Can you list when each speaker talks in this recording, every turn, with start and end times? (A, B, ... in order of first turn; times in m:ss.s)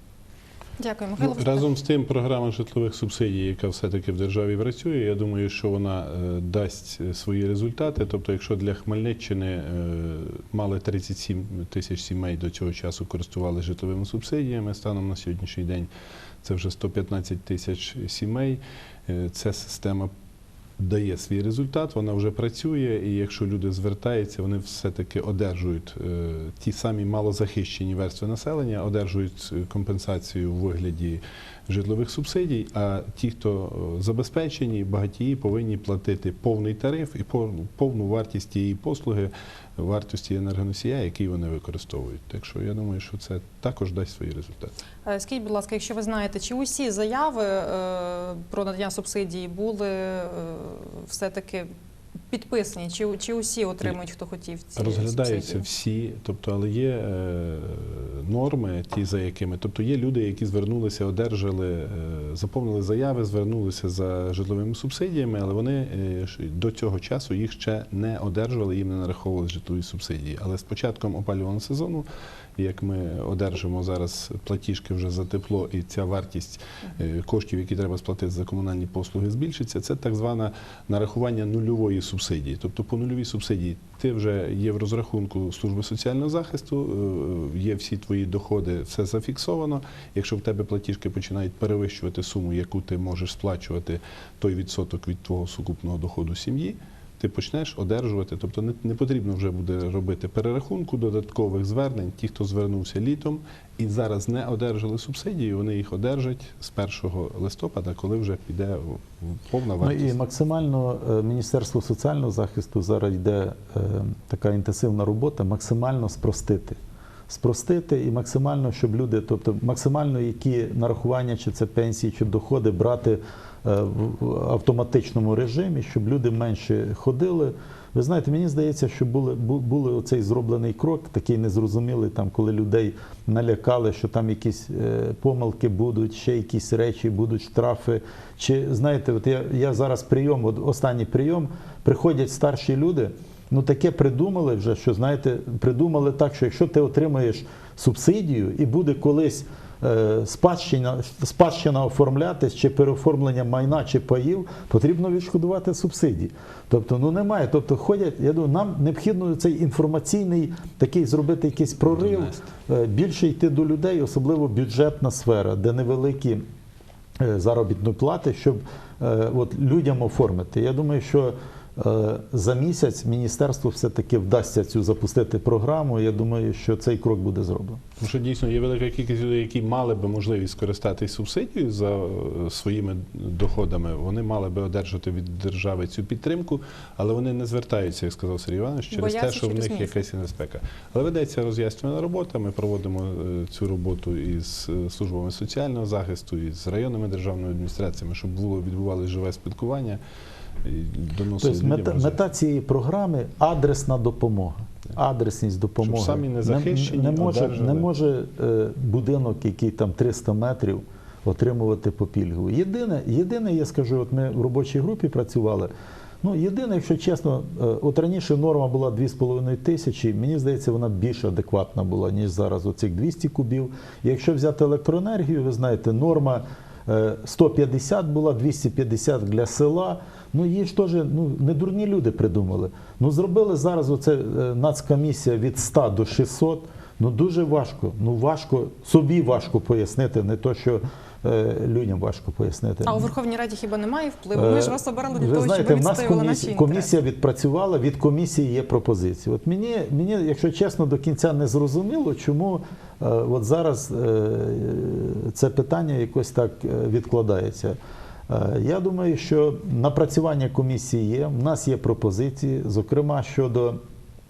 0:00.8-0:01.6 A
0:01.2-0:15.9 B
0:16.4-0:20.1 B
0:20.8-0:44.7 B
0:45.0-0:51.7 A
0:52.3-0:55.6 A
0:54.8-1:50.2 B
1:49.8-1:56.8 C
1:57.3-2:46.4 C
2:41.8-2:42.4 B
2:47.2-2:57.8 C
2:58.0-3:20.0 B
3:08.9-3:10.0 A
3:20.6-3:22.2 B
3:21.4-3:35.7 C
3:25.8-3:27.9 B
3:36.2-4:03.1 C
4:02.8-4:07.0 A
4:04.3-4:17.8 C
4:18.3-4:23.8 C